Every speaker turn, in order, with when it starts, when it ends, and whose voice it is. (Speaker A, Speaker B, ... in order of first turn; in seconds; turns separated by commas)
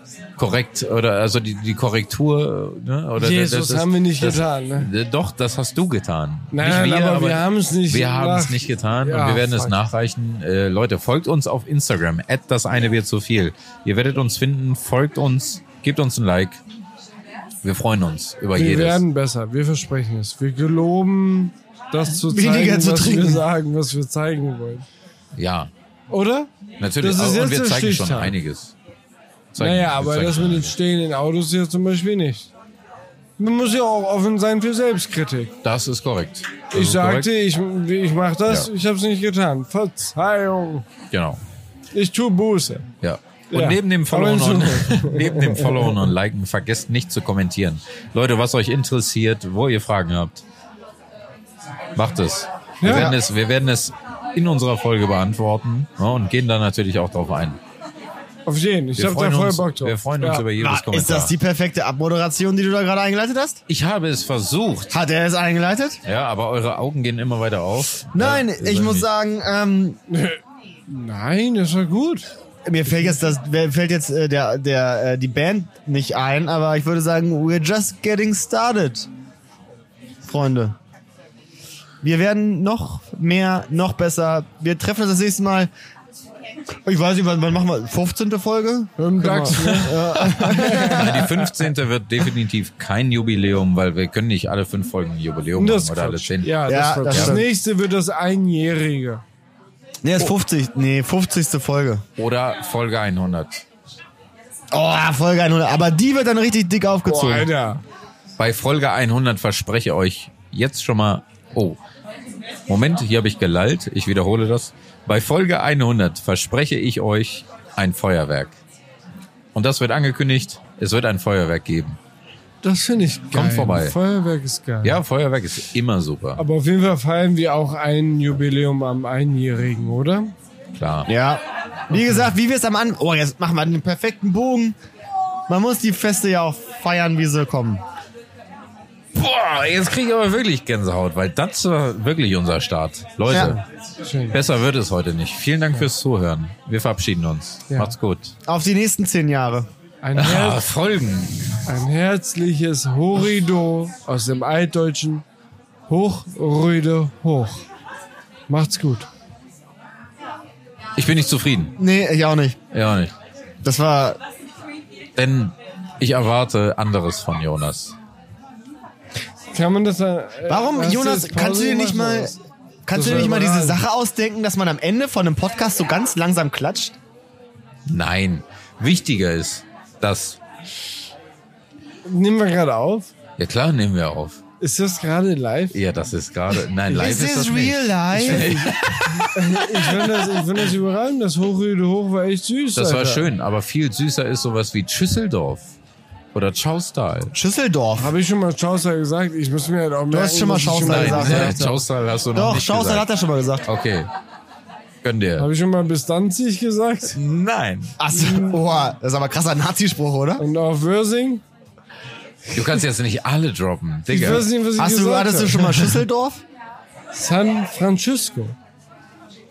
Speaker A: 0.4-16.6, Speaker B: 3.2-4.9, Speaker B: 6.5-9.8, Speaker A: 17.6-19.0, Speaker B: 18.6-24.9, Speaker C: 22.3-23.4, Speaker A: 25.4-25.7, Speaker B: 26.1-28.3, Speaker A: 26.8-28.7, Speaker A: 29.5-30.7, Speaker B: 29.6-32.5, Speaker B: 33.4-35.6, Speaker A: 35.6-37.3, Speaker B: 36.7-40.9, Speaker A: 41.1-41.4, Speaker B: 41.9-42.9, Speaker A: 43.0-50.4, Speaker B: 43.5-46.1, Speaker A: 52.0-57.6, Speaker B: 52.8-53.1, Speaker C: 52.9-53.2, Speaker B: 58.5-60.5, Speaker A: 59.0-61.3, Speaker C: 60.5-63.6, Speaker A: 63.7-65.0, Speaker C: 64.9-66.0, Speaker A: 66.0-69.1, Speaker C: 68.1-70.0, Speaker B: 70.1-72.3, Speaker C: 72.7-79.1, Speaker C: 80.2-80.8, Speaker C: 82.0-85.7, Speaker C: 86.8-91.5, Speaker B: 89.0-91.2, Speaker A: 89.6-96.6, Speaker B: 95.6-99.2, Speaker C: 96.7-97.5, Speaker A: 97.1-97.4, Speaker C: 100.0-102.0, Speaker A: 102.2-103.6, Speaker C: 104.7-107.5, Speaker B: 107.1-107.8, Speaker A: 108.4-111.8, Speaker A: 112.7-118.5, Speaker A: 119.5-122.0, Speaker B: 122.6-125.0, Speaker A: 123.3-124.0, Speaker A: 124.8-126.4, Speaker B: 126.4-130.3, Speaker A: 130.8-131.1, Speaker C: 131.1-134.8, Speaker C: 135.5-137.8, Speaker A: 139.1-143.6, Speaker C: 143.3-143.6, Speaker B: 143.3-144.4, Speaker A: 144.3-148.3, Speaker C: 148.5-149.7, Speaker B: 150.0-150.6, Speaker A: 150.2-151.6, Speaker B: 151.7-155.2, Speaker B: 155.9-157.6, Speaker B: 158.5-159.1, Speaker A: 161.0-161.8, Speaker C: 161.8-162.6, Speaker A: 162.7-163.1, Speaker C: 163.6-164.2, Speaker A: 165.2-167.9, Speaker B: 169.5-172.4, Speaker C: 170.5-172.3, Speaker C: 172.9-177.0, Speaker B: 172.9-173.8, Speaker A: 177.9-180.4, Speaker B: 182.1-183.1, Speaker A: 183.4-184.4, Speaker B: 184.6-185.8, Speaker A: 185.7-189.6, Speaker C: 186.9-188.8, Speaker B: 188.2-188.7, Speaker B: 189.3-193.3, Speaker A: 192.8-195.7, Speaker A: 196.3-197.3, Speaker C: 197.3-198.1, Speaker B: 198.0-201.8, Speaker C: 200.1-201.7, Speaker A: 200.8-203.1, Speaker C: 202.3-203.7, Speaker A: 203.7-204.1, Speaker A: 205.0-205.5, Speaker B: 205.4-207.2, Speaker A: 207.1-208.0, Speaker C: 208.0-210.4, Speaker B: 208.2-208.6, Speaker B: 210.4-211.4, Speaker A: 212.5-214.5, Speaker B: 212.6-212.8, Speaker B: 214.1-215.8, Speaker C: 214.8-216.4, Speaker B: 217.1-218.6